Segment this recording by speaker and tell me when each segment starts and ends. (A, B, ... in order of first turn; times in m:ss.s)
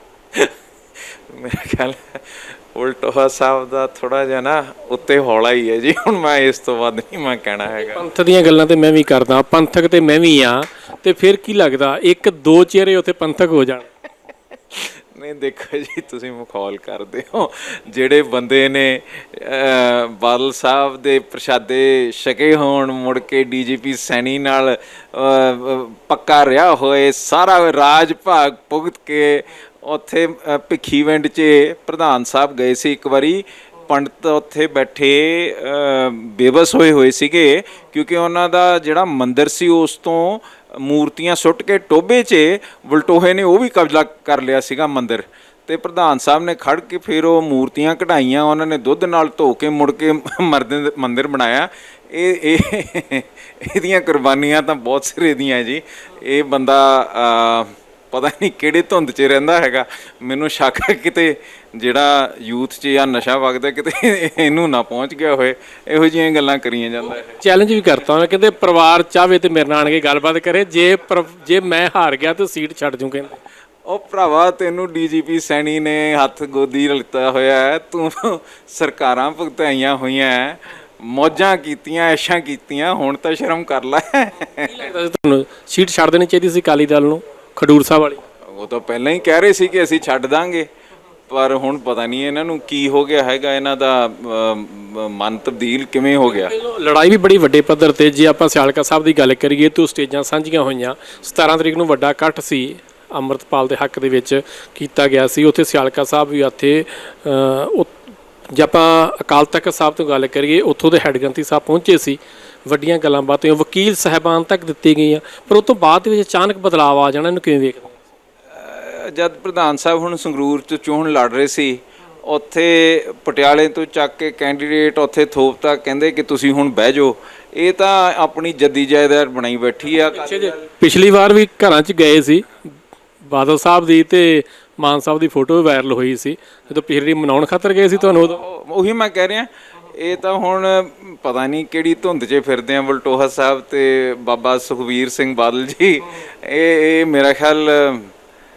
0:01.3-0:08.0 A
0:07.8-0:13.9 B
0:14.7-1:07.4 A
1:07.4-1:13.4 B
1:13.9-1:24.9 A
1:24.6-1:28.2 B
1:28.4-1:30.7 A
1:31.3-1:36.5 A
1:36.3-1:47.9 B
1:48.5-1:58.0 B
1:58.5-2:10.6 A
2:10.0-2:12.6 B
2:13.2-2:18.4 B
2:18.2-2:28.1 A